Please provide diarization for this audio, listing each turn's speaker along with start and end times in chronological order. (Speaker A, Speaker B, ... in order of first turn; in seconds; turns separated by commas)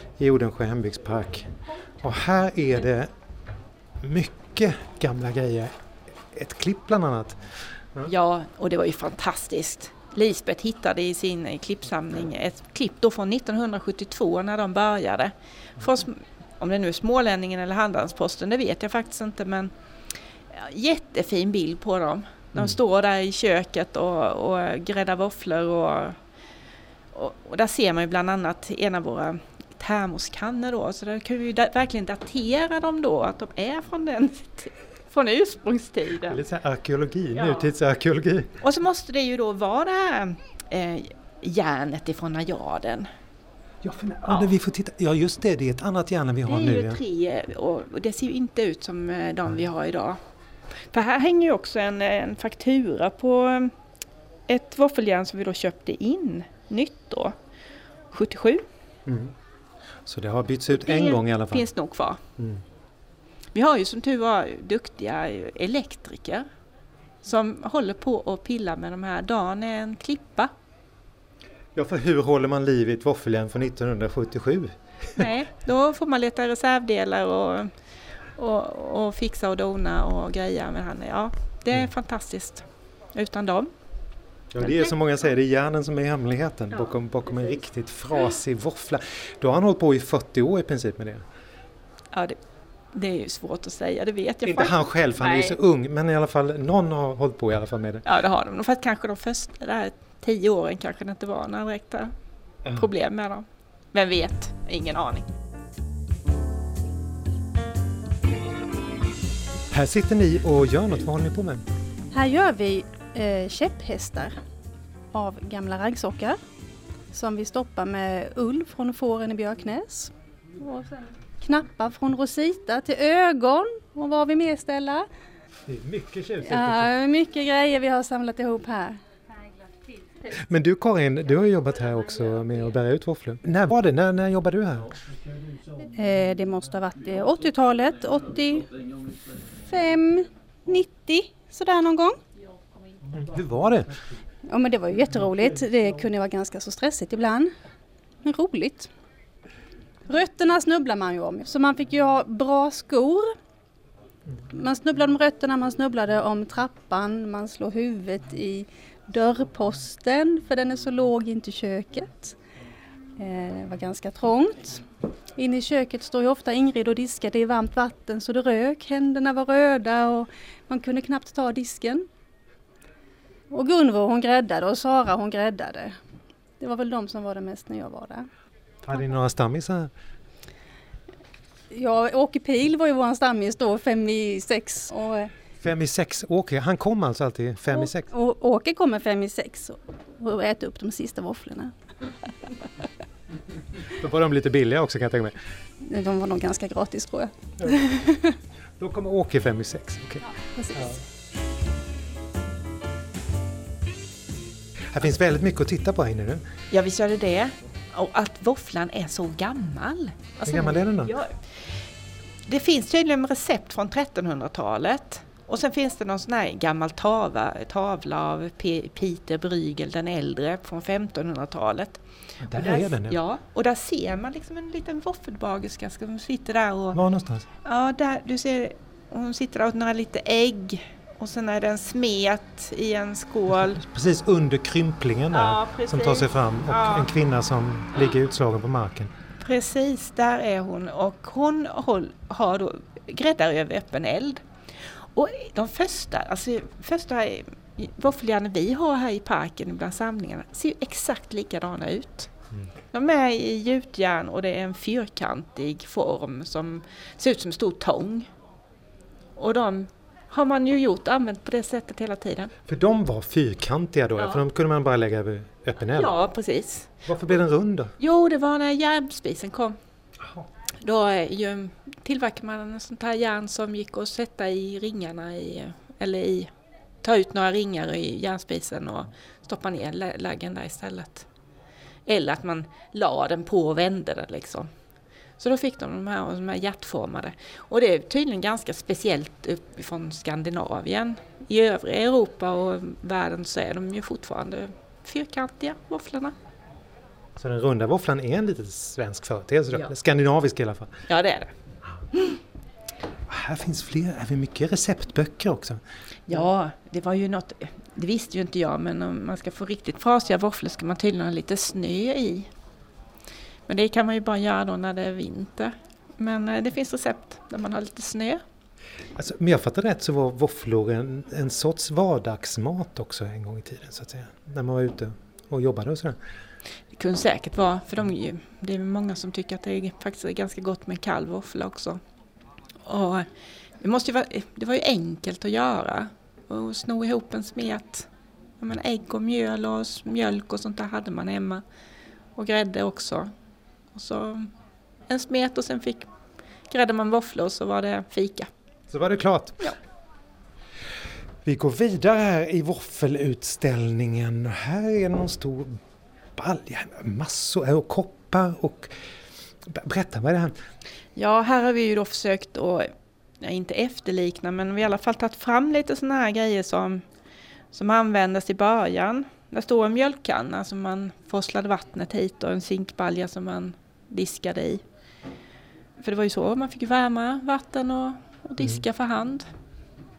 Speaker A: 0.2-3.1, Speaker A: 4.0-5.7, Speaker A: 6.3-8.1, Speaker B: 8.1-26.2, Speaker B: 27.1-36.4, Speaker A: 36.2-38.5, Speaker B: 37.3-37.7, Speaker B: 38.6-43.1, Speaker A: 43.8-47.0, Speaker B: 46.5-50.2, Speaker B: 50.9-53.7, Speaker B: 54.5-57.4, Speaker B: 58.1-58.6, Speaker A: 59.0-59.3, Speaker A: 60.0-61.7, Speaker B: 60.7-62.2, Speaker A: 62.4-62.6, Speaker B: 63.5-66.5, Speaker B: 67.2-70.5, Speaker A: 71.7-75.2, Speaker B: 75.2-77.7, Speaker B: 78.3-83.7, Speaker A: 84.5-91.2, Speaker B: 84.6-84.9, Speaker B: 92.1-92.4, Speaker B: 92.9-95.6, Speaker A: 94.4-98.0, Speaker B: 98.0-102.1, Speaker B: 102.7-105.3, Speaker A: 109.7-111.6, Speaker C: 112.1-114.4, Speaker C: 115.1-116.4, Speaker C: 117.1-125.1, Speaker A: 125.7-126.9, Speaker C: 126.4-129.0, Speaker A: 130.3-134.9, Speaker C: 135.8-138.8, Speaker C: 139.5-142.2, Speaker A: 143.1-143.9, Speaker C: 144.5-147.5, Speaker C: 148.2-148.9, Speaker C: 150.1-153.3, Speaker C: 154.5-162.4, Speaker C: 163.2-164.8, Speaker C: 165.3-172.1, Speaker C: 173.5-176.0, Speaker C: 176.6-178.3, Speaker A: 178.8-179.9, Speaker C: 181.7-185.3, Speaker A: 185.6-188.1, Speaker C: 188.1-191.7, Speaker A: 194.0-195.3, Speaker C: 195.8-198.3, Speaker A: 198.8-200.9, Speaker A: 204.9-206.4, Speaker B: 206.7-211.8, Speaker A: 210.4-211.1, Speaker B: 212.5-222.0, Speaker A: 222.4-223.2, Speaker B: 222.5-227.0, Speaker A: 226.9-227.5, Speaker B: 227.6-233.8, Speaker A: 233.5-239.1, Speaker B: 235.3-237.1, Speaker B: 239.4-244.4, Speaker B: 245.0-252.3, Speaker B: 252.9-258.3, Speaker B: 259.4-262.5, Speaker A: 262.6-266.1, Speaker B: 265.9-267.0, Speaker A: 267.1-267.9, Speaker B: 268.0-269.8, Speaker B: 270.8-276.5, Speaker B: 277.0-281.2, Speaker B: 282.1-284.7, Speaker B: 285.4-296.3, Speaker A: 297.4-300.9, Speaker B: 301.1-301.5, Speaker A: 303.3-306.4, Speaker B: 306.3-312.5, Speaker B: 313.7-318.4, Speaker A: 319.1-326.2, Speaker B: 326.9-332.0, Speaker B: 332.8-333.3, Speaker B: 333.8-338.1, Speaker B: 338.6-341.6, Speaker B: 342.4-343.3, Speaker B: 343.9-344.5, Speaker B: 345.1-346.1, Speaker B: 346.7-348.5, Speaker A: 348.9-349.7, Speaker A: 351.4-355.8, Speaker A: 356.4-358.9, Speaker A: 359.6-360.5, Speaker B: 361.1-367.0, Speaker B: 367.7-374.8, Speaker B: 376.0-379.5, Speaker A: 378.6-378.8